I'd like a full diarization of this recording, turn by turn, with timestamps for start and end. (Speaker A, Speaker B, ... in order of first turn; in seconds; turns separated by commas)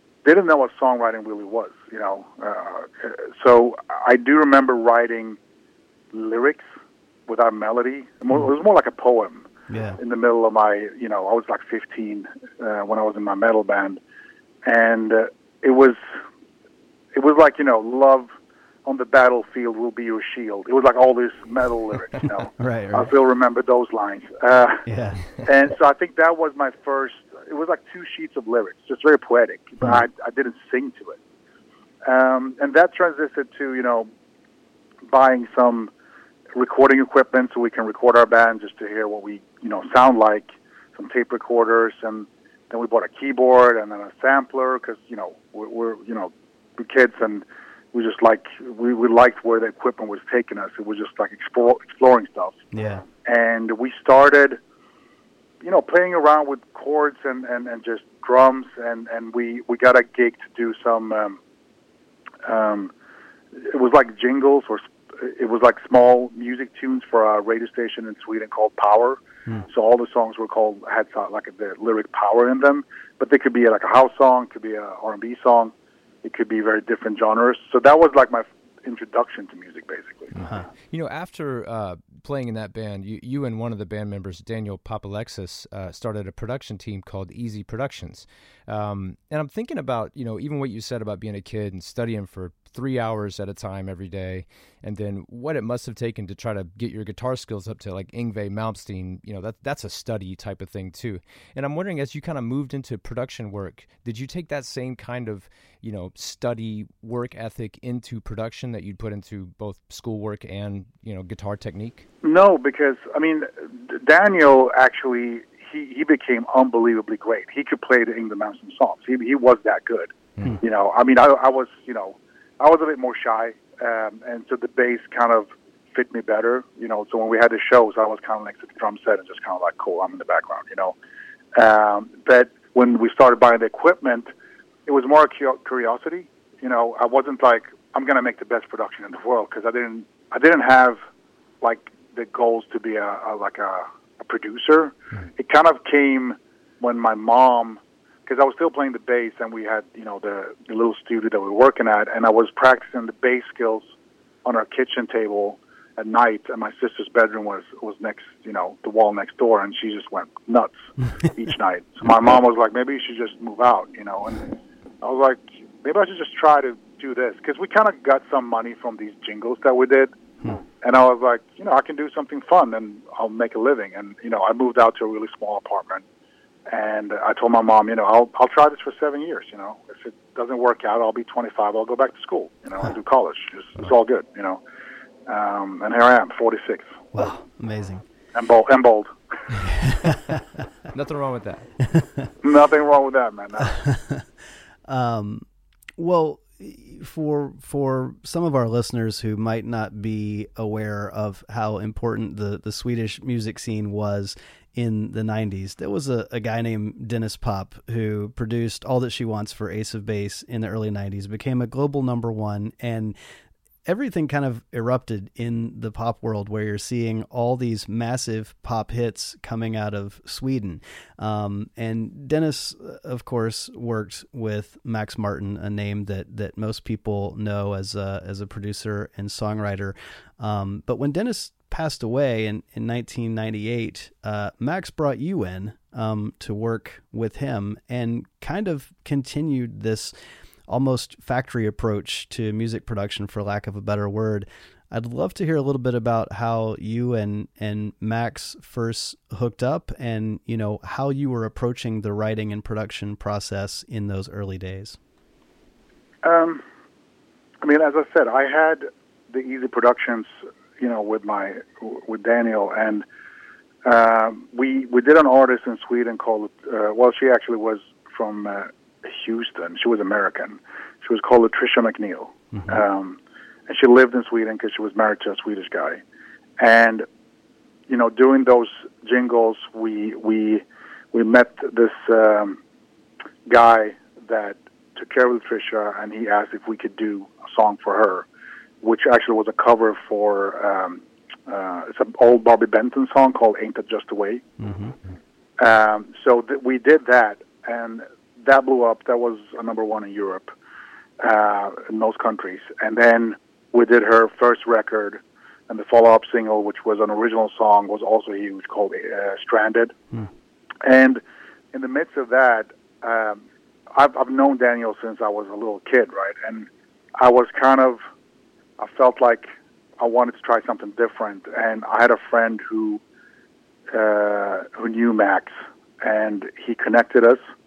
Speaker A: 0.2-5.4, Speaker A: 6.1-6.7, Speaker A: 7.3-9.5, Speaker B: 9.7-10.0, Speaker A: 10.0-14.0, Speaker A: 14.7-16.0, Speaker A: 17.1-18.3, Speaker A: 18.9-24.9, Speaker B: 22.6-23.1, Speaker B: 24.9-25.3, Speaker A: 25.4-31.2, Speaker A: 32.0-34.1, Speaker A: 35.1-35.9, Speaker A: 36.6-52.6, Speaker B: 52.7-53.1, Speaker A: 53.2-54.6, Speaker A: 55.6-61.4, Speaker A: 62.4-62.9, Speaker A: 63.5-75.7, Speaker A: 76.2-80.3, Speaker C: 80.3-112.1, Speaker A: 112.2-130.9, Speaker A: 131.6-134.3, Speaker A: 134.9-141.0, Speaker A: 141.6-153.8, Speaker A: 154.4-164.5, Speaker A: 165.0-170.1, Speaker A: 170.8-176.0, Speaker A: 176.7-184.6, Speaker A: 185.3-187.1, Speaker B: 187.1-188.0, Speaker A: 188.3-189.1, Speaker B: 189.7-190.2, Speaker C: 190.9-191.7, Speaker B: 191.9-192.3, Speaker A: 192.4-193.8, Speaker B: 193.7-194.2, Speaker B: 194.9-195.4, Speaker B: 196.0-213.2, Speaker B: 213.9-240.1, Speaker B: 240.7-255.0, Speaker A: 256.2-256.6, Speaker A: 257.6-263.1, Speaker A: 263.9-276.0, Speaker B: 272.5-272.8, Speaker A: 276.6-277.1, Speaker A: 277.9-282.6, Speaker A: 283.5-288.3, Speaker A: 288.8-294.4, Speaker B: 294.6-294.9, Speaker A: 295.6-300.5, Speaker A: 301.2-309.9, Speaker A: 310.8-311.2, Speaker A: 311.7-318.0, Speaker A: 318.8-319.5, Speaker A: 320.0-323.0, Speaker A: 323.9-327.4